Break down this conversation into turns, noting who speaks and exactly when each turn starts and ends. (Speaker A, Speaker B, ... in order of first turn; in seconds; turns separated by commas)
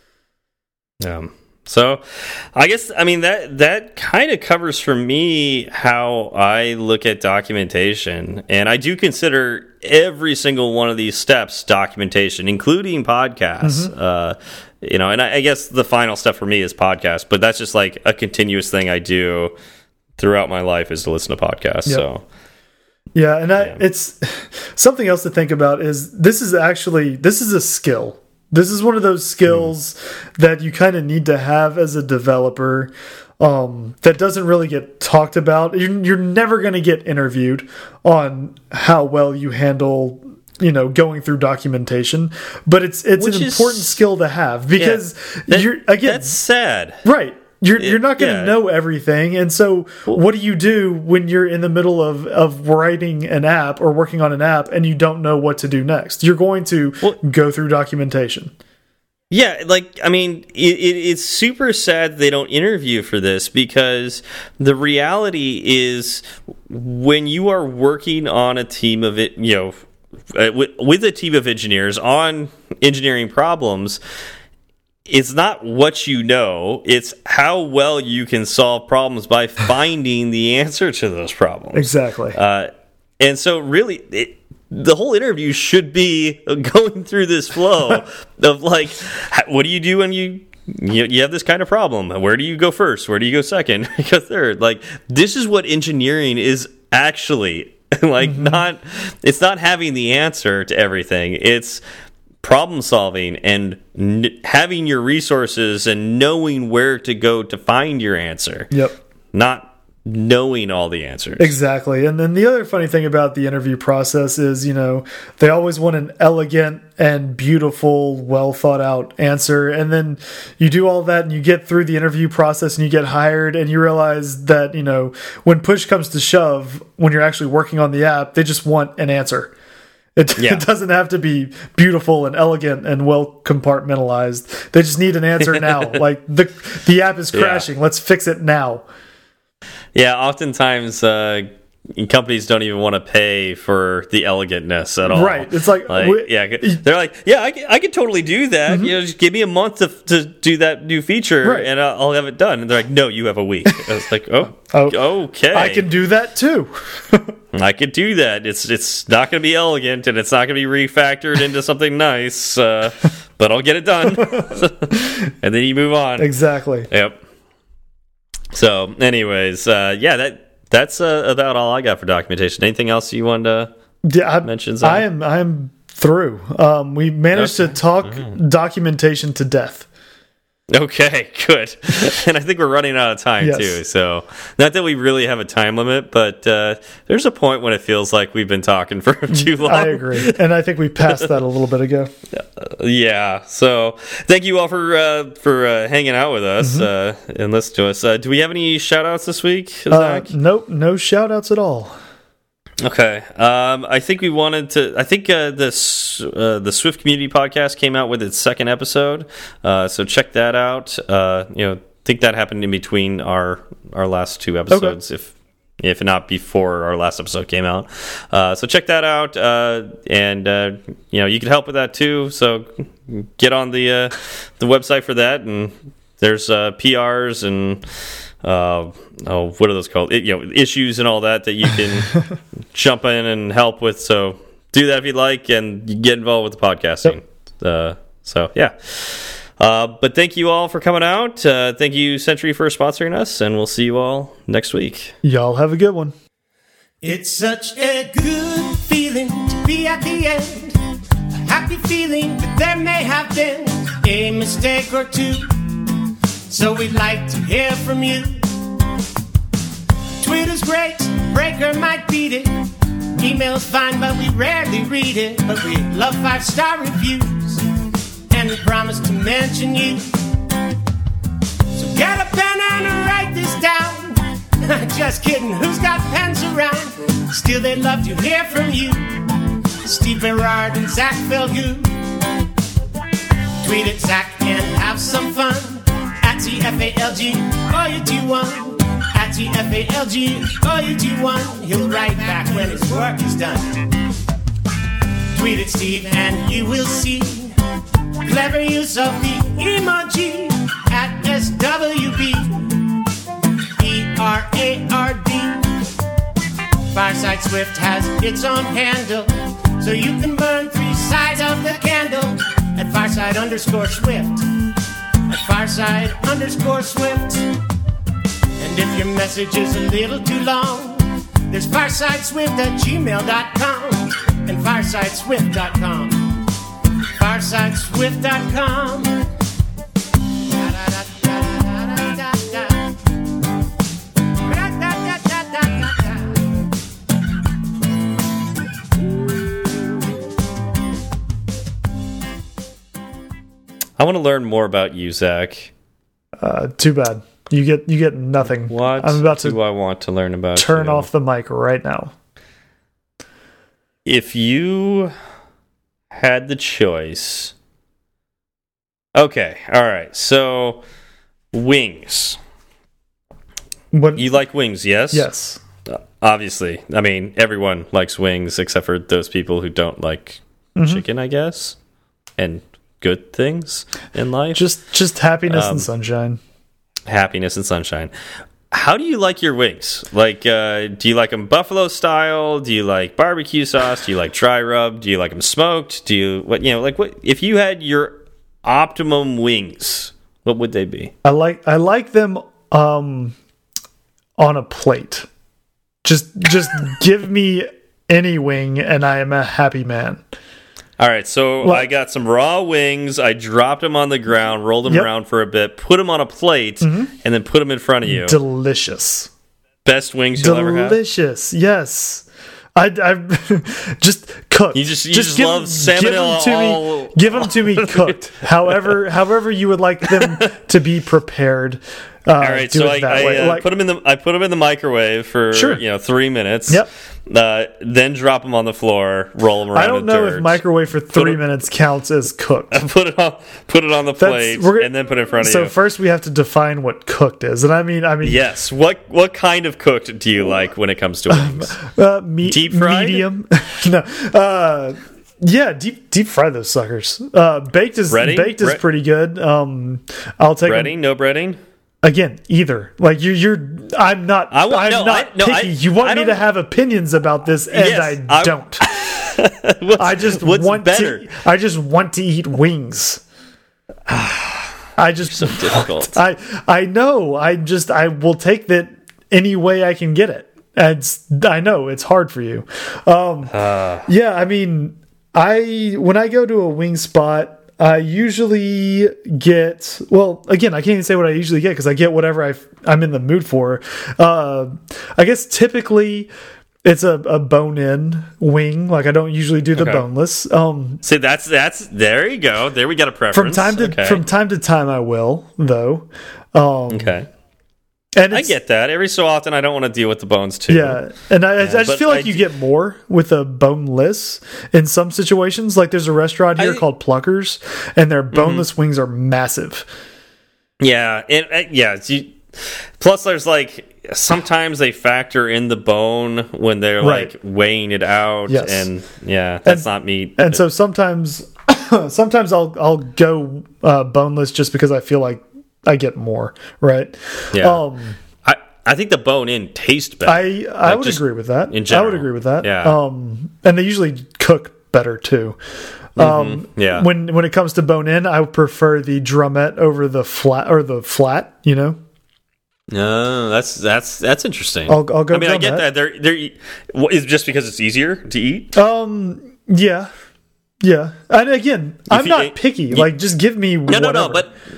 Speaker A: 1.0-19.5, Speaker B: 13.6-13.9, Speaker A: 20.2-22.2, Speaker B: 23.1-46.4, Speaker A: 43.2-44.0, Speaker A: 44.8-47.0, Speaker B: 47.0-58.5, Speaker A: 47.8-48.5, Speaker A: 59.3-69.8, Speaker A: 70.3-74.0, Speaker A: 75.1-101.8, Speaker B: 81.7-82.4, Speaker B: 98.2-98.6, Speaker A: 102.4-108.7, Speaker B: 108.7-109.0, Speaker A: 109.3-111.5, Speaker B: 111.4-129.5, Speaker B: 130.2-138.8, Speaker A: 130.4-130.6, Speaker A: 137.3-137.7, Speaker A: 139.9-155.9, Speaker B: 145.1-146.8, Speaker B: 148.7-148.9, Speaker B: 151.4-151.7, Speaker B: 154.7-155.0, Speaker B: 155.5-157.3, Speaker A: 157.5-166.3, Speaker B: 164.2-165.0, Speaker B: 166.2-166.9, Speaker A: 166.9-167.2, Speaker A: 168.5-173.7, Speaker B: 174.0-179.9, Speaker A: 174.4-175.0, Speaker A: 177.3-178.3, Speaker A: 180.7-190.4, Speaker B: 183.4-183.8, Speaker B: 189.3-192.1, Speaker A: 192.3-200.3, Speaker B: 196.6-196.9, Speaker B: 199.9-201.9, Speaker A: 202.8-227.8, Speaker B: 214.7-215.0, Speaker A: 228.4-232.2, Speaker A: 232.7-245.1, Speaker B: 245.2-246.1, Speaker C: 247.0-250.8, Speaker C: 251.3-255.9, Speaker C: 256.5-258.5, Speaker C: 260.2-267.6, Speaker C: 268.3-270.1, Speaker C: 271.7-279.2, Speaker C: 279.8-281.9, Speaker C: 283.6-293.8, Speaker C: 295.3-297.5, Speaker C: 298.2-302.7, Speaker C: 303.8-305.7, Speaker C: 306.9-314.5, Speaker C: 315.3-317.5, Speaker C: 318.6-326.4, Speaker C: 327.2-329.2, Speaker C: 330.4-332.9, Speaker C: 334.4-336.5, Speaker A: 344.0-345.7, Speaker B: 346.4-349.6, Speaker A: 348.4-351.1, Speaker B: 350.6-352.1, Speaker A: 354.0-355.1, Speaker A: 356.1-357.5, Speaker A: 359.1-360.8, Speaker A: 361.5-362.4, Speaker B: 363.9-364.3, Speaker A: 364.1-365.3, Speaker B: 365.1-365.6, Speaker A: 365.9-371.8, Speaker B: 370.7-371.0, Speaker A: 372.4-374.6, Speaker B: 374.5-376.4, Speaker A: 375.5-375.9, Speaker A: 377.1-378.1, Speaker A: 378.7-391.1, Speaker B: 391.2-393.4, Speaker B: 394.4-395.3, Speaker B: 396.0-400.2, Speaker A: 401.0-408.4, Speaker B: 401.6-401.9, Speaker B: 406.8-407.1, Speaker B: 408.0-409.3, Speaker A: 409.8-411.0, Speaker B: 410.4-423.6, Speaker A: 414.7-419.0, Speaker A: 420.1-420.4, Speaker A: 422.4-430.6, Speaker B: 425.5-425.8, Speaker B: 429.7-432.8, Speaker A: 432.7-435.7, Speaker B: 434.2-438.4, Speaker A: 438.2-441.8, Speaker B: 441.3-450.9, Speaker A: 442.4-443.2, Speaker A: 448.1-448.8, Speaker A: 450.6-451.6, Speaker B: 452.0-458.8, Speaker A: 454.5-456.4, Speaker A: 457.7-461.3, Speaker B: 460.0-463.2, Speaker A: 464.1-464.7, Speaker B: 465.0-473.5, Speaker A: 465.3-466.2, Speaker A: 473.5-474.1, Speaker B: 474.1-486.3, Speaker B: 486.8-491.0, Speaker A: 489.8-490.0, Speaker A: 491.0-494.2, Speaker B: 493.3-497.1, Speaker A: 496.9-497.3, Speaker B: 498.1-498.5, Speaker A: 498.3-501.0, Speaker B: 500.7-509.9, Speaker A: 501.6-502.4, Speaker A: 506.6-506.8, Speaker A: 508.3-508.6, Speaker A: 510.8-520.6, Speaker B: 517.0-517.3, Speaker B: 518.5-518.9, Speaker B: 519.6-528.2, Speaker A: 527.5-527.8, Speaker A: 528.4-533.0, Speaker B: 530.2-535.6, Speaker B: 536.1-542.0, Speaker A: 536.2-537.1, Speaker A: 542.9-548.7, Speaker B: 544.9-545.9, Speaker B: 548.7-550.1, Speaker B: 550.8-554.4, Speaker A: 552.1-553.1, Speaker A: 553.9-554.5